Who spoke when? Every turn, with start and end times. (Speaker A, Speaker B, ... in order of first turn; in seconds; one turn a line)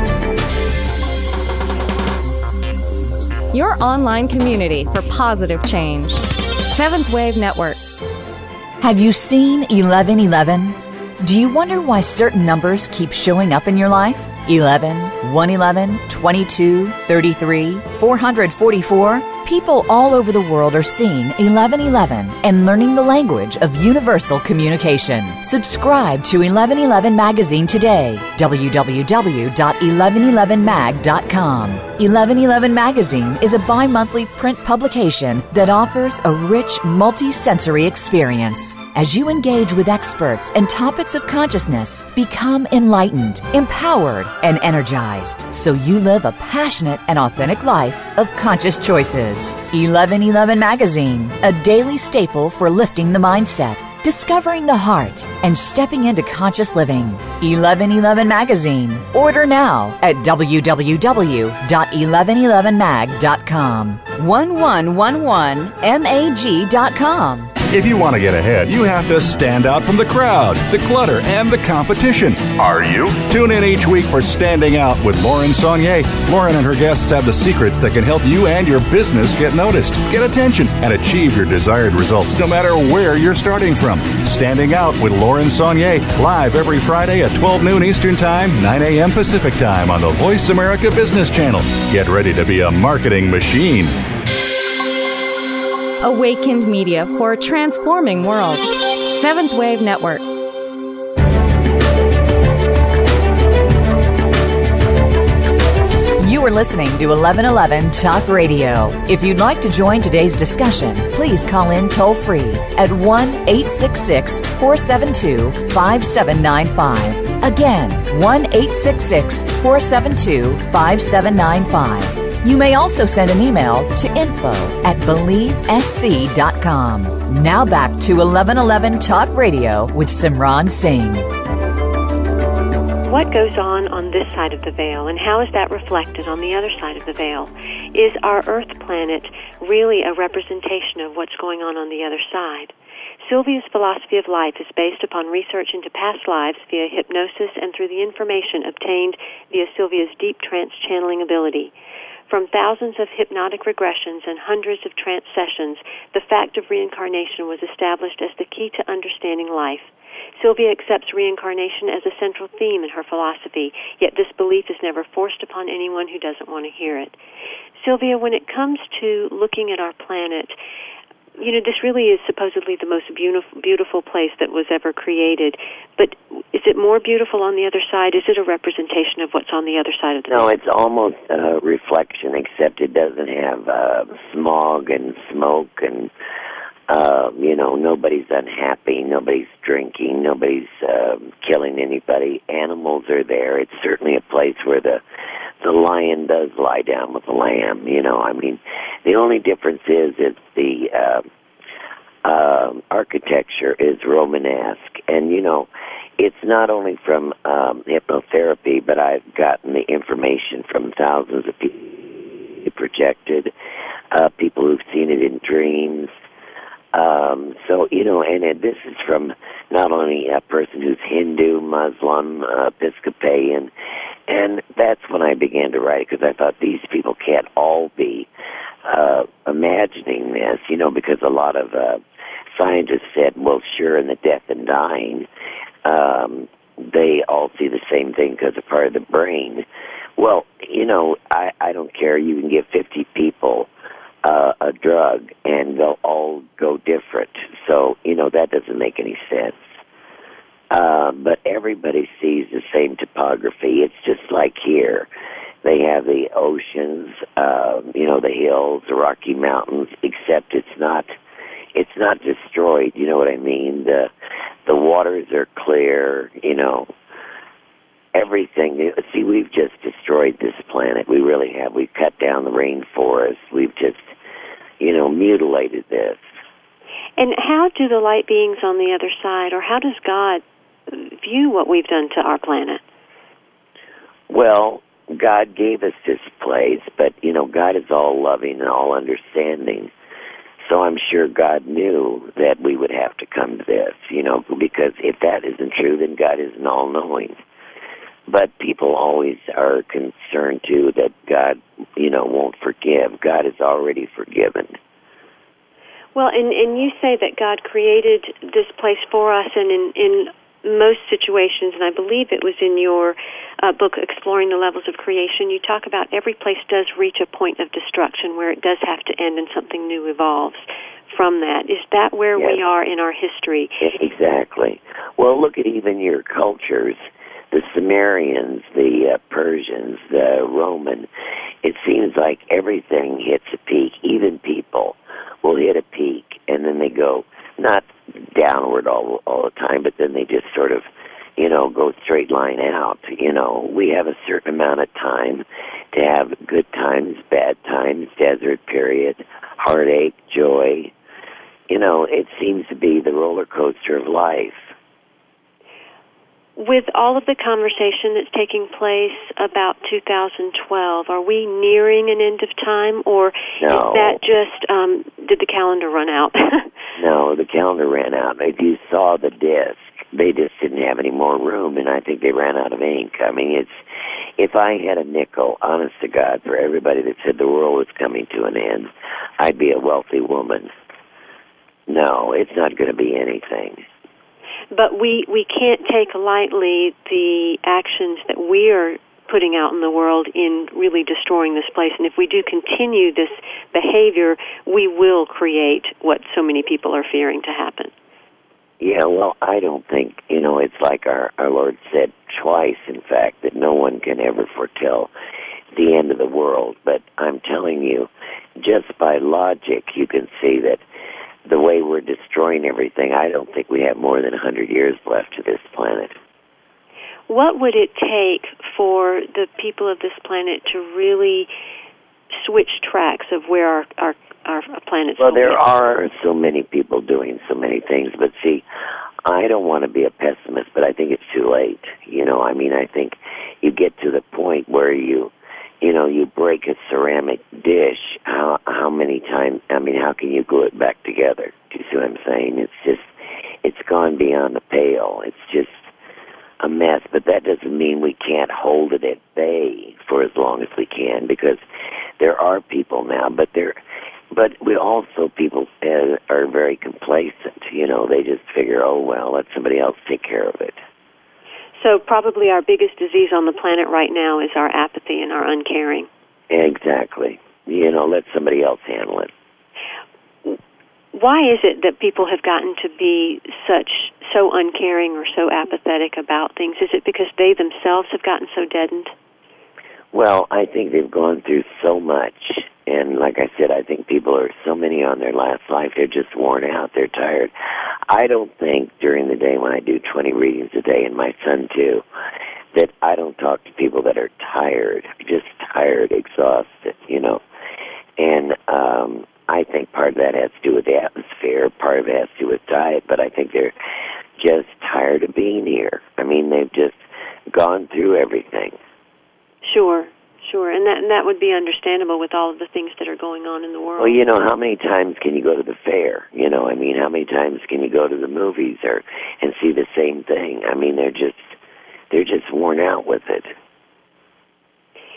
Speaker A: 3.5-7.8
Speaker B: 8.8-67.5
Speaker C: 67.7-93.9
Speaker A: 96.0-100.2
Speaker B: 106.2-131.3
Speaker D: 133.1-151.7
Speaker D: 152.3-167.2
Speaker D: 167.8-170.6
Speaker D: 171.4-180.5
Speaker E: 180.3-186.1
Speaker E: 186.9-195.0
Speaker E: 195.6-201.3
Speaker E: 202.2-212.0
Speaker E: 212.6-213.5
Speaker E: 214.1-216.1
Speaker E: 216.9-223.7
Speaker E: 224.3-228.3
Speaker E: 228.8-232.0
Speaker E: 232.5-235.3
Speaker E: 235.8-239.7
Speaker E: 240.2-243.7
Speaker E: 244.2-249.8
Speaker E: 250.7-255.1
Speaker E: 255.6-261.1
Speaker E: 261.7-264.1
Speaker E: 264.7-266.9
Speaker E: 268.1-274.1
Speaker E: 274.8-276.2
Speaker D: 277.2-282.8
Speaker E: 284.3-289.9
Speaker E: 290.6-297.4
Speaker E: 298.3-304.8
Speaker D: 306.1-323.8
Speaker E: 323.8-331.1
Speaker E: 331.6-340.9
Speaker E: 341.4-350.9
Speaker E: 351.7-354.7
Speaker D: 356.6-366.7
Speaker E: 363.6-364.2
Speaker E: 367.0-373.8
Speaker E: 374.4-380.7
Speaker E: 381.9-383.8
Speaker D: 384.7-397.9
Speaker E: 398.8-405.1
Speaker E: 405.7-410.8
Speaker E: 411.5-416.1
Speaker D: 417.3-421.5
Speaker D: 422.3-425.6
Speaker E: 425.2-428.6
Speaker E: 429.3-443.1
Speaker E: 443.6-445.9
Speaker E: 446.6-451.6
Speaker E: 452.2-453.8
Speaker E: 454.3-460.8
Speaker D: 461.8-466.1
Speaker E: 466.5-469.3
Speaker D: 471.1-479.1
Speaker E: 480.1-487.5
Speaker E: 488.1-492.0
Speaker E: 492.7-497.4
Speaker E: 498.2-503.7
Speaker E: 504.4-507.0
Speaker E: 507.5-508.8
Speaker D: 509.6-514.2
Speaker E: 514.0-521.5
Speaker E: 522.1-523.5